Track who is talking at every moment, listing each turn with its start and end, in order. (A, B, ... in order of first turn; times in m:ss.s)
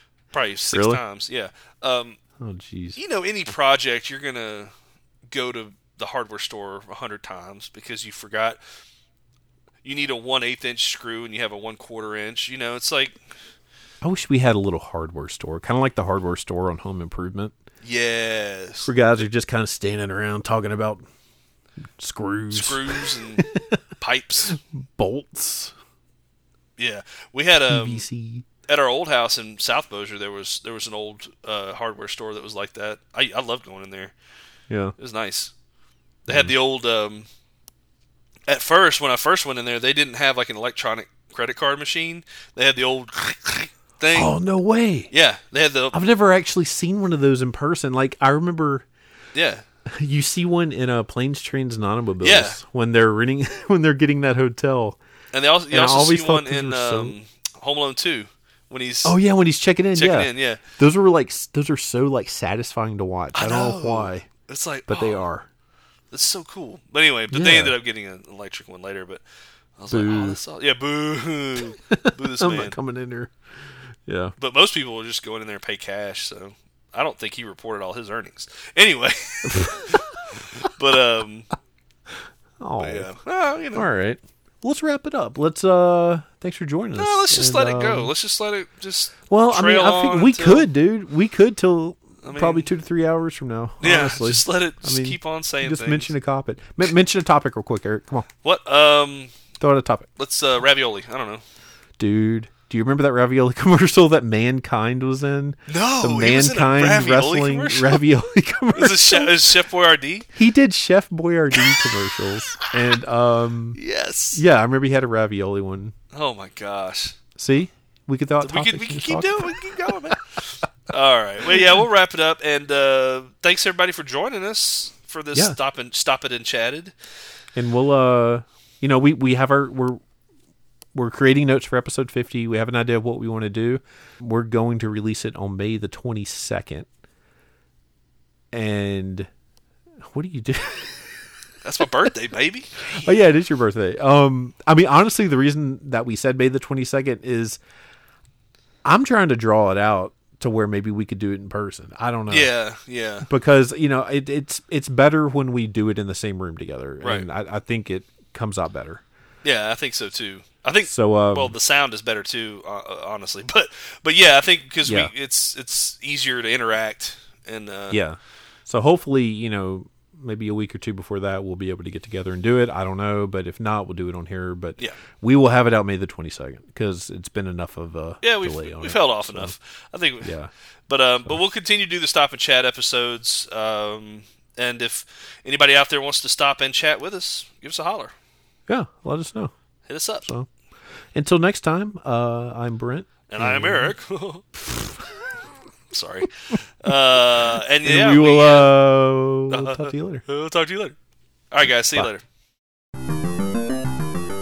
0:00.3-0:02.2 A
0:00.7-0:01.0 B
0:02.4-0:03.0 B
0:03.0-0:04.7 A
0:05.3-0:08.6 A
0:09.8-0:13.2 A
0:14.0-0:17.6 B
0:17.8-0:18.9 A
0:18.8-0:21.1 B
0:22.0-0:23.8 B
0:22.5-0:23.5 A
0:24.0-0:24.6 A
0:24.5-0:25.8 B
0:26.8-0:28.1 A
0:27.7-0:28.4 B
0:28.7-0:34.1 A
0:34.7-0:35.0 B
0:35.0-0:35.5 A
0:36.3-0:37.3 A
0:38.5-0:44.4 A
0:44.1-0:45.1 B
0:45.1-0:46.0 A
0:45.9-0:48.8 B
0:49.3-0:49.6 A
0:49.9-0:55.0 B
0:52.2-0:52.6 A
0:55.3-0:59.2 A
0:55.7-0:57.2 B
0:59.0-1:04.3 B
1:00.0-1:00.6 A
1:03.3-1:05.2 A
1:04.9-1:05.5 B
1:06.1-1:09.2 A
1:07.3-1:07.8 B
1:09.8-1:12.8 A
1:09.9-1:10.4 B
1:11.9-1:13.3 B
1:14.1-1:14.3 B
1:14.4-1:21.5 A
1:19.5-1:20.1 B
1:22.6-1:23.1 B
1:22.8-1:23.9 A
1:23.7-1:28.1 B
1:27.0-1:30.7 A
1:29.3-1:38.3 B
1:32.2-1:32.7 A
1:33.8-1:36.1 A
1:38.4-1:39.4 A
1:39.6-1:40.1 B
1:40.2-1:41.4 A
1:42.0-1:49.4 B
1:45.7-1:48.0 A
1:48.7-1:50.3 A
1:50.4-1:53.8 B
1:53.8-1:54.4 A
1:54.3-1:56.0 B
1:56.1-1:57.2 A
1:57.4-2:00.0 B
1:58.4-2:06.9 A
2:07.6-2:10.0 B
2:10.9-2:16.9 B
2:18.5-2:19.3 B
2:20.0-2:21.3 B
2:21.6-2:23.2 A
2:22.8-2:27.6 B
2:28.8-2:32.5 B
2:32.3-2:33.3 A
2:33.2-2:39.0 B
2:37.0-2:37.3 A
2:39.4-2:48.0 A
2:40.9-2:41.6 B
2:44.8-2:45.1 B
2:47.9-2:59.5 B
2:58.2-3:00.4 A
3:00.2-3:00.5 B
3:00.9-3:08.1 A
3:08.7-3:09.5 B
3:09.9-3:10.3 A
3:11.2-3:13.9 B
3:13.3-3:14.4 A
3:14.6-3:15.1 B
3:15.9-3:18.7 A
3:17.8-3:20.2 B
3:19.5-3:21.0 A
3:21.5-3:22.2 A